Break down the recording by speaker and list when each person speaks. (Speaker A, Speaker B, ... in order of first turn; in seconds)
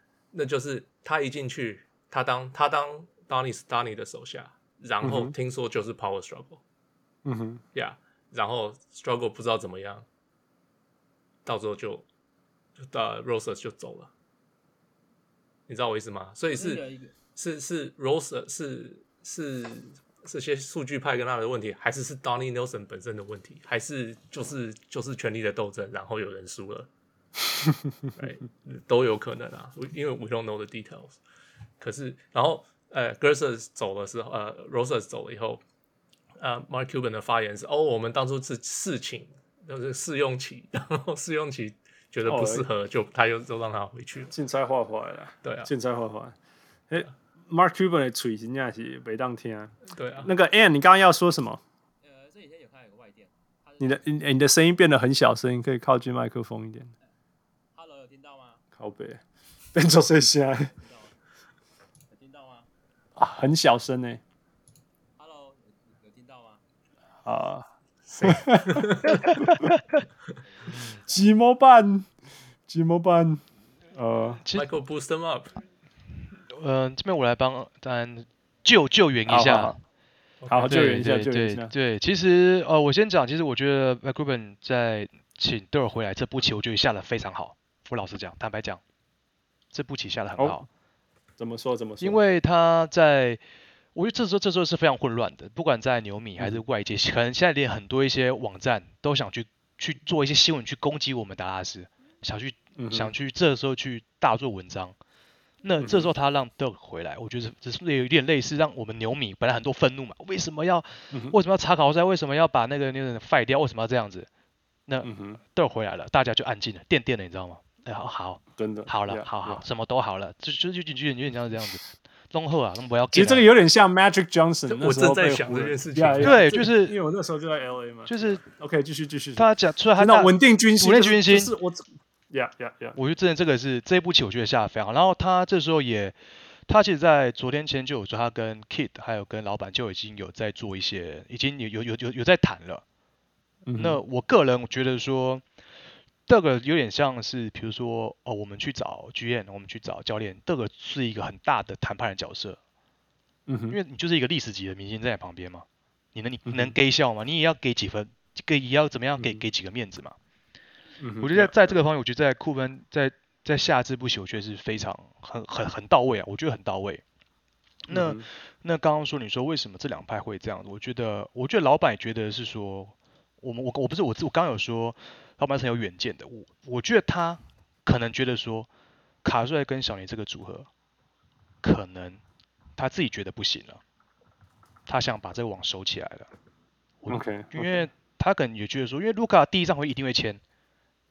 Speaker A: 0.3-6.6, 7.7-10.1, 11.5-12.1, 12.8-14.1, 15.7-26.9, 28.2-31.2, 31.8-35.6, 36.4-44.3, 45.4-45.7, 49.9-50.3, 68.1-69.2, 74.5-75.6, 80.4-80.8, 124.7-126.5
Speaker B: 5.0-5.3, 7.2-7.6, 42.3-42.7, 44.3-46.4, 46.9-51.6, 53.8-56.9, 58.8-59.2, 59.7-60.7, 63.2-64.2, 67.2-67.7, 68.2-69.6, 71.1-72.1, 72.7-74.4, 79.3-79.8, 80.5-81.7, 90.4-90.6, 91.4-92.2, 102.8-103.1, 105.8-106.1, 111.1-111.4, 115.0-115.4, 118.6-119.6, 123.1-133.0, 143.7-144.0, 153.5-153.8, 156.5-156.8, 159.2-159.4, 161.0-161.8, 167.9-168.3, 187.1-187.9
Speaker C: 16.6-17.1, 52.0-53.9, 57.8-58.6, 60.8-61.1, 62.1-62.7, 65.2-66.6
Speaker D: 69.0-70.0, 74.4-74.7, 76.5-79.8, 80.7-88.8, 89.7-90.7, 92.0-93.4, 94.0-105.0, 105.6-114.3, 114.9-123.5, 126.2-127.0, 128.1-128.4, 129.4-131.5, 132.9-142.8, 143.8-145.4, 146.3-152.6, 153.7-160.2, 161.2-167.0, 167.9-178.7, 179.2-180.7, 181.6-182.2, 182.8-183.8, 184.9-186.3, 187.0-190.4